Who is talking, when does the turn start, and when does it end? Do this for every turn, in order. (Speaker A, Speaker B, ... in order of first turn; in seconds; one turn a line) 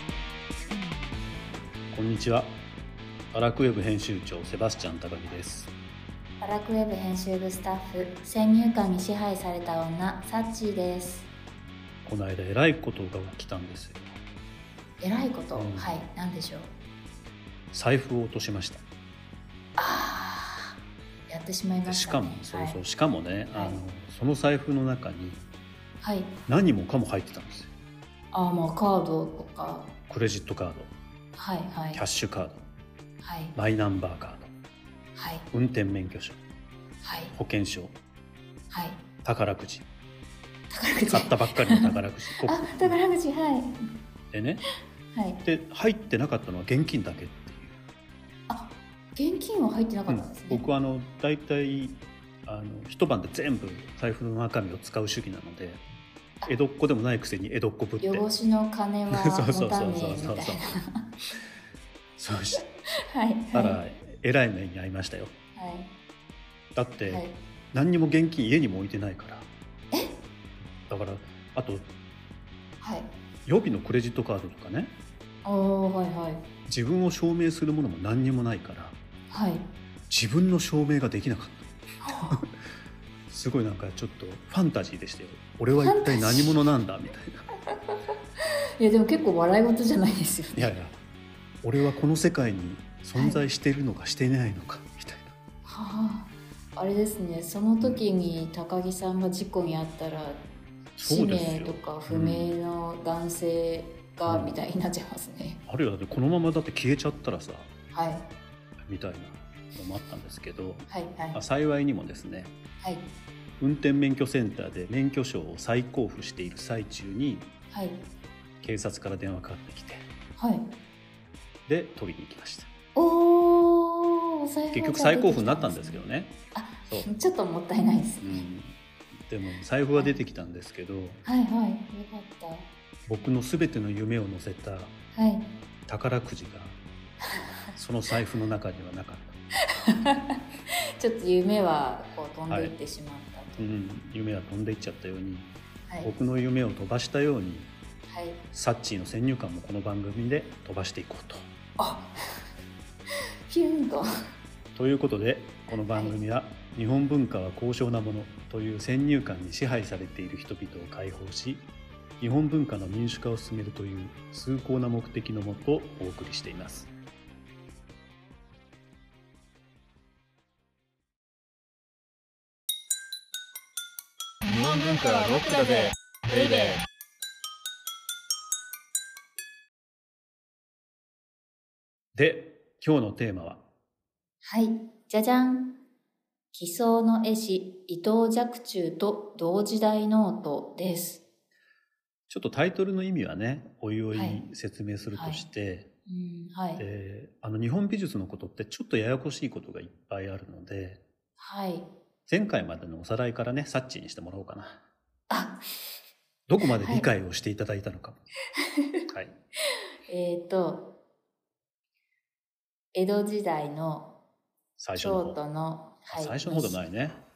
Speaker A: 1.9-2.5
Speaker A: 3.3-5.7
Speaker B: 6.4-11.3
Speaker A: 12.1-14.2
Speaker B: 15.0-16.7
Speaker A: 15.5-16.0
Speaker A: 17.7-18.8
Speaker B: 19.8-20.8
Speaker B: 21.3-22.8
Speaker A: 21.9-25.4
Speaker B: 23.5-23.8
Speaker B: 26.0-26.3
Speaker A: 26.5-27.7
Speaker B: 28.3-29.9
Speaker A: 30.1-30.9
Speaker B: 31.3-32.0
Speaker A: 31.9-32.7
Speaker B: 33.2-33.5
Speaker A: 33.5-34.5
Speaker B: 35.2-35.5
Speaker A: 35.5-36.4
Speaker B: 37.0-37.4
Speaker A: 37.4-37.9
Speaker B: 38.7-39.0
Speaker A: 39.2-39.9
Speaker B: 40.7-43.8
Speaker A: 41.1-43.0
Speaker A: 44.3-44.6
Speaker B: 45.1-45.4
Speaker A: 45.4-47.8
Speaker B: 48.5-50.7
Speaker A: 50.1-55.8
Speaker A: 56.5-58.3
Speaker B: 58.0-60.7
Speaker A: 59.1-60.6
Speaker A: 62.2-62.7
Speaker B: 63.1-63.8
Speaker A: 63.5-65.3
Speaker B: 65.6-65.9
Speaker A: 66.8-69.5
Speaker B: 67.1-67.3
Speaker A: 70.9-71.9
Speaker B: 72.8-73.1
Speaker A: 73.5-74.9
Speaker B: 75.4-76.4
Speaker A: 76.7-79.0
Speaker B: 79.3-79.7
Speaker A: 80.1-81.8
Speaker B: 82.0-82.4
Speaker A: 83.3-87.4
Speaker B: 85.8-86.5
Speaker B: 87.7-88.0
Speaker B: 88.8-90.7
Speaker A: 90.5-91.0
Speaker A: 91.6-95.3
Speaker B: 93.2-93.4
Speaker B: 95.7-100.4
Speaker A: 101.0-102.5
Speaker B: 101.0-105.6
Speaker A: 104.3-104.6
Speaker A: 105.7-107.7
Speaker B: 107.9-108.2
Speaker A: 108.9-112.5
Speaker B: 110.9-111.4
Speaker A: 113.6-117.5
Speaker B: 117.7-118.0
Speaker A: 118.6-120.1
Speaker B: 120.4-120.7
Speaker A: 121.7-122.7
Speaker B: 123.0-128.5
Speaker A: 124.7-126.3
Speaker A: 128.2-131.2
Speaker B: 129.9-130.2
Speaker B: 131.2-132.7
Speaker A: 133.1-134.9
Speaker B: 135.1-135.5
Speaker A: 135.9-136.8
Speaker B: 137.2-137.8
Speaker A: 137.8-139.4
Speaker B: 139.7-140.4
Speaker B: 141.0-143.7
Speaker A: 142.5-142.7
Speaker A: 143.6-145.5
Speaker A: 146.0-147.7
Speaker B: 148.1-148.4
Speaker A: 148.5-151.5
Speaker B: 151.8-152.1
Speaker B: 153.5-154.1
Speaker A: 154.8-161.7
Speaker B: 155.9-156.2
Speaker A: 162.2-166.9
Speaker C: 174.6-176.7
Speaker A: 182.1-183.6
Speaker B: 184.4-185.7
Speaker B: 186.5-191.2
Speaker A: 192.3-195.9
Speaker B: 194.1-194.4
Speaker B: 195.1-195.5
Speaker B: 196.1-196.8
Speaker A: 196.8-201.0
Speaker B: 201.4-201.9
Speaker A: 202.3-204.8
Speaker B: 205.3-205.6
Speaker A: 206.5-208.2
Speaker B: 206.8-207.1
Speaker A: 209.1-209.4
Speaker B: 210.1-210.9
Speaker B: 212.9-214.1
Speaker A: 214.8-215.4
Speaker B: 214.9-216.8
Speaker A: 216.1-217.2